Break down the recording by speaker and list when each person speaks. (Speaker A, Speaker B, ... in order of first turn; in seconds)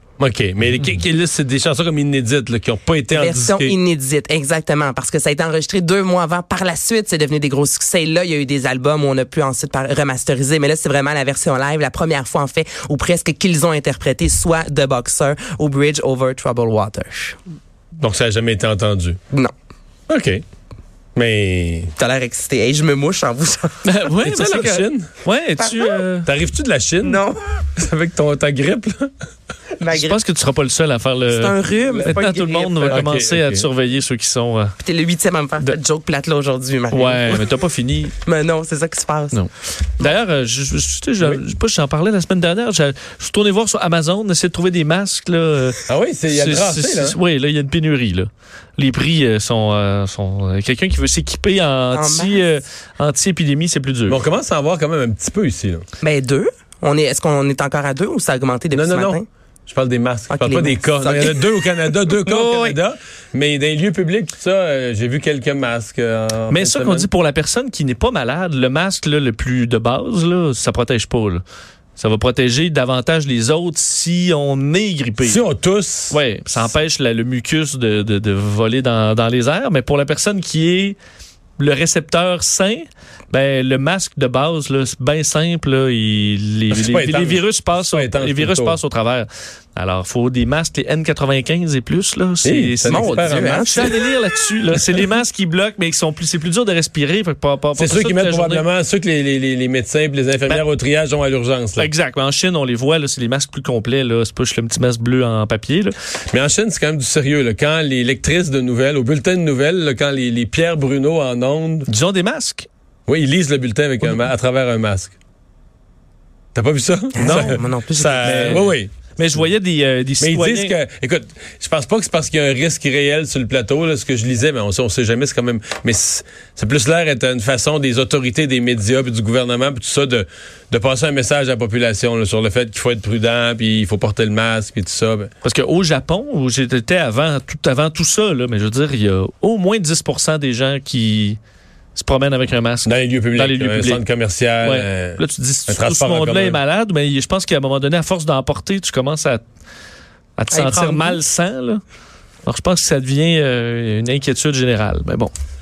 Speaker A: 0.2-3.8, 18.0-19.2, 20.1-20.4, 21.1-21.9, 24.2-25.2, 26.2-27.2, 27.8-29.1, 32.9-33.7, 45.9-47.2, 54.1-55.8, 58.7-67.1, 75.2-76.2, 86.7-88.8, 92.4-93.9, 97.8-101.9, 106.3-111.9, 113.1-115.1, 116.5-118.9, 120.2-135.3, 142.9-146.6
Speaker B: 3.1-17.4, 22.0-23.8, 25.6-26.0, 27.0-27.4, 29.8-30.2, 31.3-33.0, 34.8-37.4, 38.2-39.4, 51.9-52.5, 56.0-59.2, 60.3-62.8, 92.8-93.9, 117.2-118.7, 150.5-151.2
Speaker C: 23.9-26.3, 29.9-34.8, 36.9-38.1, 39.3-54.2, 66.5-71.4, 72.0-75.4, 76.1-81.0, 81.6-98.7, 101.8-105.9, 111.9-112.7, 118.2-120.8, 135.4-141.4, 142.0-144.0, 144.6-149.4, 150.4-151.8, 152.5-155.3